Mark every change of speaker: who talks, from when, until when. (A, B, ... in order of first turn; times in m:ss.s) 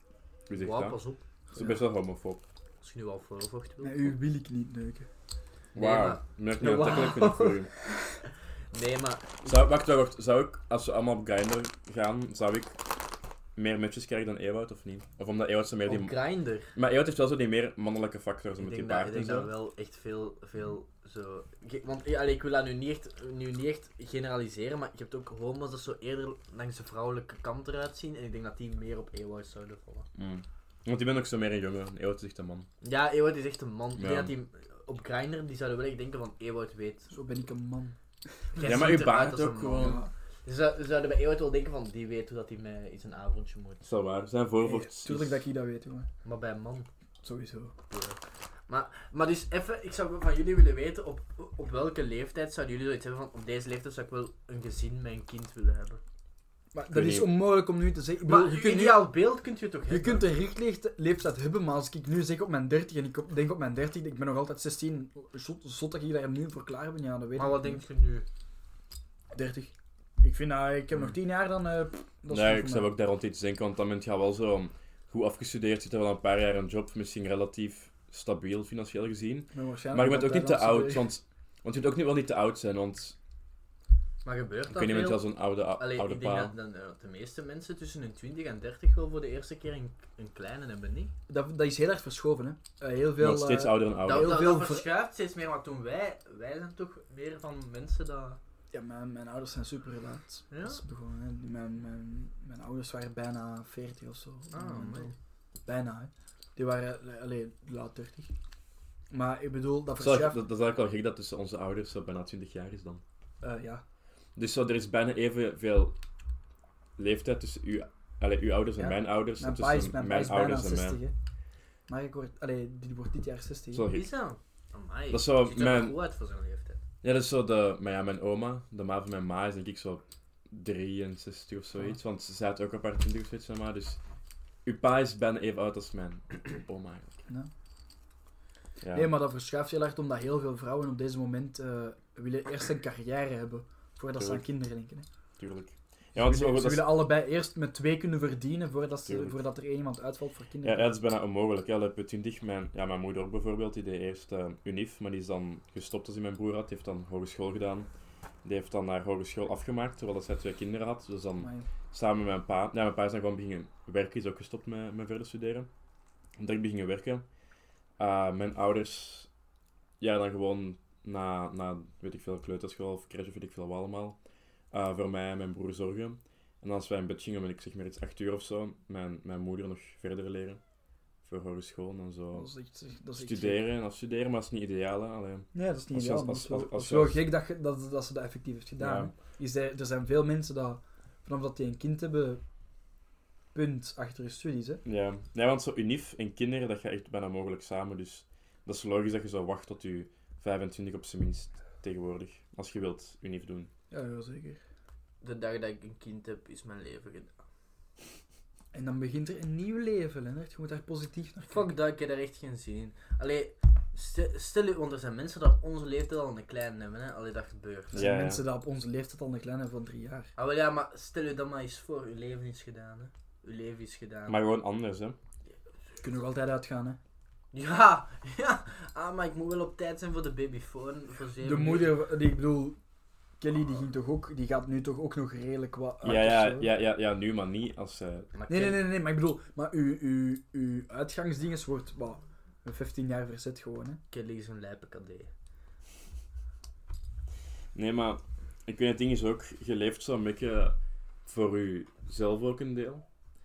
0:00.5-0:01.0 A
0:00.5-0:01.2 B
0:01.5-0:01.8 C
0:01.5-0:02.4 A
0:02.8-0:04.1 B
0:03.8-0:05.1 C
0:05.7-0:07.6 B
0:05.8-0:07.7 A
0:06.6-0:07.0 C
0:08.7-0:09.5 B
0:09.4-0:12.8 A
0:13.6-0:16.1 A
0:15.8-0:16.7 B
0:16.7-0:19.5 A
0:18.6-0:30.1 B
0:30.2-0:32.7 A
0:32.8-0:37.1 B
0:34.0-0:34.3 A
0:37.1-0:38.0 C
0:38.5-0:40.1 C
0:38.5-0:43.8 B
0:38.6-0:40.0 A
0:43.8-0:45.4 A
0:44.6-0:46.1 C
0:46.2-0:46.9 B
0:47.2-0:47.7 C
0:47.9-0:56.0 B
0:56.7-0:59.1 C
0:56.9-0:57.3 A
0:58.2-1:00.3 B
0:59.9-1:07.8 C
1:07.4-1:08.2 B
1:09.3-1:12.9 C
1:12.3-1:23.1 A
1:19.5-1:21.1 C
1:24.2-1:25.2 B
1:24.7-1:26.5 A
1:25.8-1:31.1 B
1:31.3-1:34.9 C
1:33.2-1:34.4 A
1:34.0-1:38.4 B
1:38.7-1:45.1 C
1:40.5-1:40.8 B
1:44.5-1:45.1 B
1:45.6-1:48.3 C
1:49.1-1:50.4 C
1:50.0-1:53.0 A
1:53.4-1:53.8 C
1:54.4-1:55.9 A
1:57.0-2:01.0 A
1:58.8-2:01.1 C
2:01.9-2:03.9 C
2:03.7-2:04.1 A
2:03.9-2:06.8 B
2:05.1-2:06.0 A
2:07.0-2:14.0 A
2:14.6-2:17.2 A
2:18.8-2:19.1 A
2:18.9-2:25.0 C
2:24.2-2:24.4 A
2:25.4-2:27.0 A
2:26.1-2:30.9 C
2:29.1-2:29.4 A
2:30.6-2:37.9 A
2:38.4-2:45.7 A
2:41.4-2:41.7 C
2:46.4-2:47.2 A
2:48.0-2:49.3 A
2:50.0-2:54.2 A
2:54.7-3:00.6 A
3:01.2-3:02.5 A
3:02.3-3:03.6 C
3:03.1-3:07.2 A
3:05.5-3:12.4 C
3:08.8-3:09.1 A
3:13.5-3:14.8 C
3:14.8-3:23.7 A
3:23.9-3:24.6 C
3:25.2-3:27.3 B
3:28.7-3:31.7 C
3:31.5-3:38.0 B
3:37.9-3:40.3 C
3:37.9-3:38.4 A
3:40.4-3:44.4 B
3:44.3-3:45.2 A
3:46.0-3:47.0 C
3:47.5-3:51.9 B
3:51.4-3:52.8 C
3:53.4-3:56.7 C
3:56.0-3:58.3 A
3:58.3-3:58.8 B
3:58.5-4:04.0 C
4:04.1-4:05.3 B
4:07.7-4:13.0 A